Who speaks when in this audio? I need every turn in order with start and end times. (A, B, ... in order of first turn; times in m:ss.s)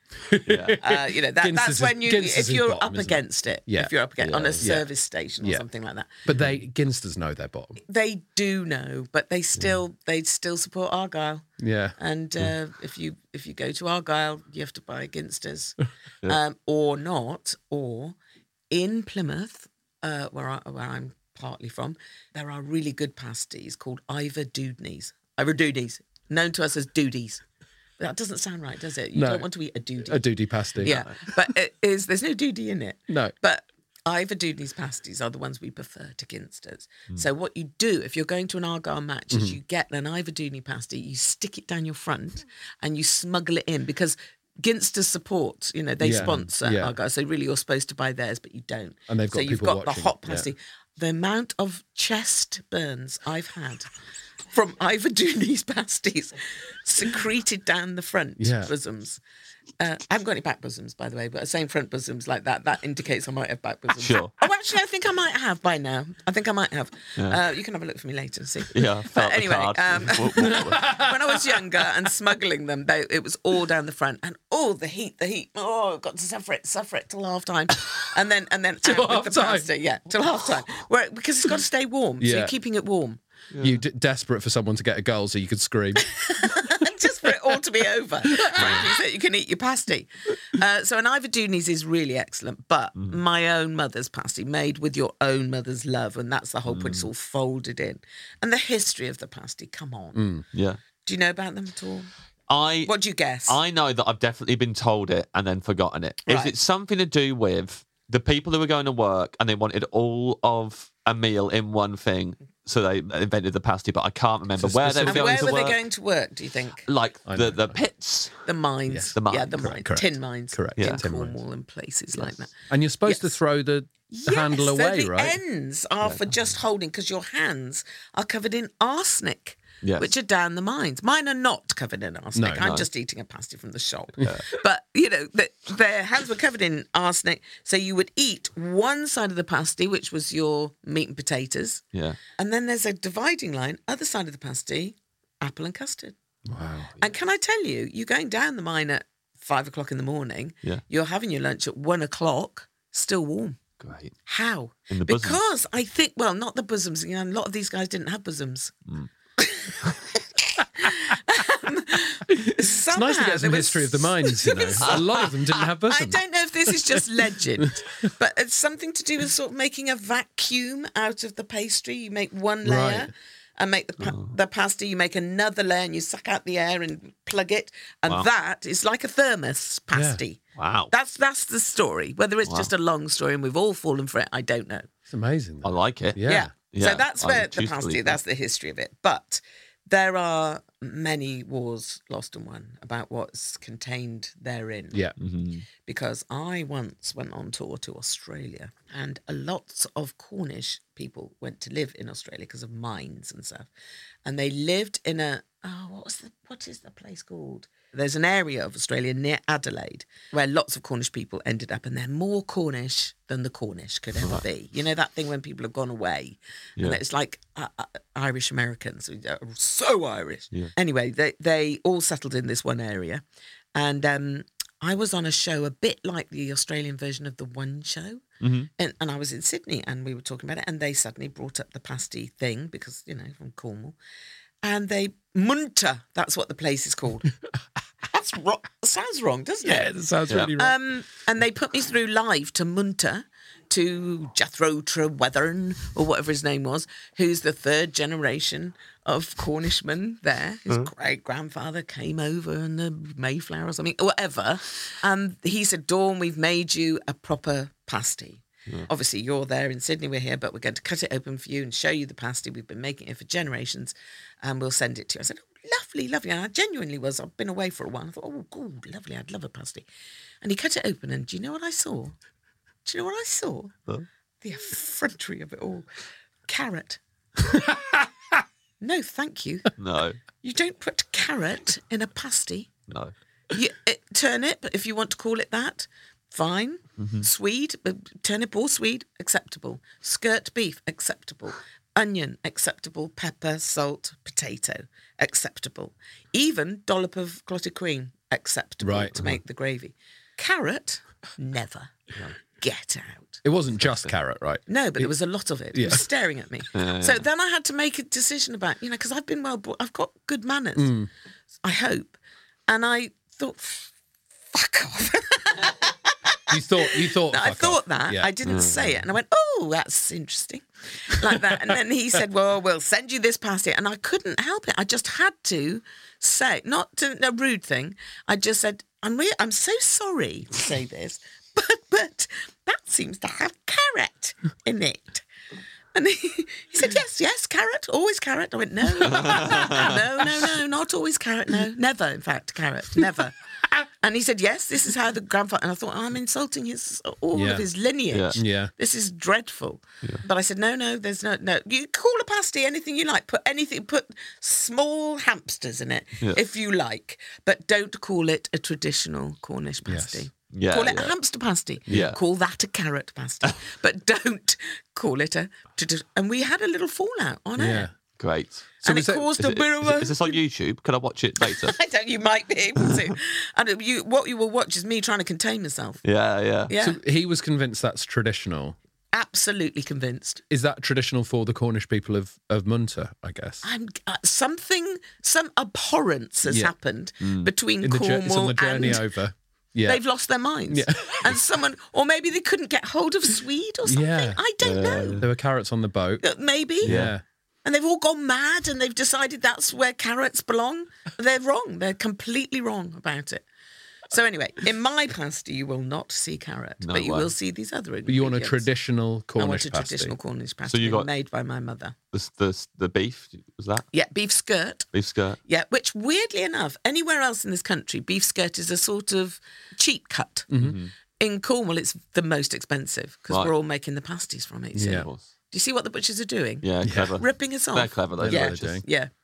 0:00.2-0:03.9 A
0:00.5-0:00.8 B
0:00.8-0:06.2 C
0:04.2-0:04.7 B
0:04.6-0:04.9 A
0:05.4-0:05.7 A
0:06.2-0:07.8 A
0:07.9-0:11.5 C
0:11.6-0:12.0 A
0:12.0-0:18.2 C
0:18.7-0:27.4 C
0:28.0-0:30.3 C
0:29.1-0:29.5 A
0:30.0-0:31.0 A
0:30.8-0:53.9 C
0:30.8-0:31.1 B
0:33.1-0:33.3 A
0:39.3-0:39.6 A
0:46.0-0:47.0 A
0:49.1-0:50.5 A
0:54.5-0:59.2 C
0:58.4-0:58.7 A
0:59.8-1:23.2 C
1:04.0-1:04.3 B
1:08.7-1:10.9 B
1:10.4-1:11.6 A
1:18.8-1:19.7 A
1:22.2-1:22.6 A
1:23.5-1:23.8 B
1:23.6-1:26.9 A
1:26.1-1:40.2 C
1:28.4-1:28.8 A
1:28.6-1:28.8 B
1:36.7-1:37.1 B
1:40.2-1:40.4 A
1:40.5-1:40.8 B
1:41.0-1:42.1 C
1:42.5-1:55.8 B
1:42.9-1:43.6 C
1:46.3-1:46.5 C
1:54.6-1:55.6 A
1:55.1-1:56.9 C
1:56.9-1:58.4 B
1:57.3-1:57.8 A
1:58.4-2:02.5 C
1:58.9-2:01.4 A
1:59.2-1:59.7 B
2:02.5-2:05.4 A
2:03.1-2:03.4 C
2:04.1-2:21.8 C
2:09.8-2:10.1 B
2:12.4-2:12.7 A
2:21.9-2:22.2 B
2:22.4-2:26.2 C
2:26.5-2:26.9 A
2:27.0-2:33.6 C
2:33.8-2:34.2 B
2:34.3-2:38.7 C
2:34.9-2:35.4 B
2:39.4-3:04.9 C
2:42.3-2:47.0 A
2:52.6-2:53.1 A
2:54.0-2:54.3 B
2:59.9-3:00.2 A
3:00.6-3:00.9 B
3:05.1-3:06.5 A
3:05.6-3:08.2 B
3:06.2-3:15.0 C
3:15.2-3:15.6 B
3:15.8-3:23.7 C
3:24.2-3:43.2 C
3:43.8-3:48.2 C
3:48.4-3:48.7 B
3:48.8-3:54.0 C
3:54.6-3:57.3 C
3:58.1-3:59.9 C
3:59.6-4:00.8 A
4:00.6-4:29.9 C
4:30.4-4:32.1 C
4:32.8-4:33.7 C
4:34.4-4:35.9 C
4:36.5-4:37.0 C
4:37.5-4:38.0 A
4:38.8-4:39.7 C
4:39.8-4:40.2 B
4:40.4-4:42.7 C
4:43.5-5:03.4 C
4:47.0-4:47.3 B
4:58.8-4:59.4 A
5:03.4-5:05.1 A
5:04.7-5:11.0 C
5:05.7-5:06.1 A
5:06.8-5:07.2 B
5:10.8-5:11.1 A
5:11.6-5:12.2 C
5:12.7-5:13.9 C
5:14.5-5:35.2 C
5:16.5-5:18.3 A
5:18.4-5:19.0 B
5:35.9-5:43.4 C
5:39.0-5:40.0 B
5:44.0-6:07.9 C
5:47.3-5:47.7 A
5:48.1-5:48.4 B
5:48.4-5:48.7 A
5:59.9-6:00.3 A
6:00.5-6:01.2 B
6:01.9-6:02.2 B
6:07.6-6:08.0 A
6:08.2-6:08.8 B
6:08.8-6:09.3 A
6:08.8-6:10.4 C
6:09.4-6:11.8 B
6:11.6-6:16.0 C
6:16.0-6:16.7 B
6:16.7-6:17.0 C
6:16.8-6:18.8 A
6:19.1-6:20.4 C
6:20.5-6:23.6 A
6:23.6-6:29.0 C
6:26.5-6:26.7 A
6:27.2-6:27.5 B
6:27.8-6:30.0 A
6:29.9-6:35.2 C
6:30.7-6:31.4 A
6:33.9-6:34.4 A
6:34.6-6:35.3 B
6:35.2-6:36.2 A
6:36.2-6:37.0 C
6:36.8-6:37.2 A
6:36.8-6:37.1 B
6:37.6-6:43.4 C
6:44.1-6:48.7 C
6:46.8-6:47.3 B
6:48.1-6:50.2 A
6:49.4-6:52.0 C
6:50.7-6:51.1 B
6:52.1-6:53.9 B
6:53.9-6:54.9 C
6:54.9-6:55.4 B
6:55.4-7:00.5 C
7:00.5-7:00.8 A
7:00.6-7:00.9 B
7:01.2-7:09.1 C
7:04.8-7:05.1 A
7:04.9-7:05.2 B
7:06.6-7:08.9 B
7:06.8-7:07.2 A
7:08.2-7:08.8 A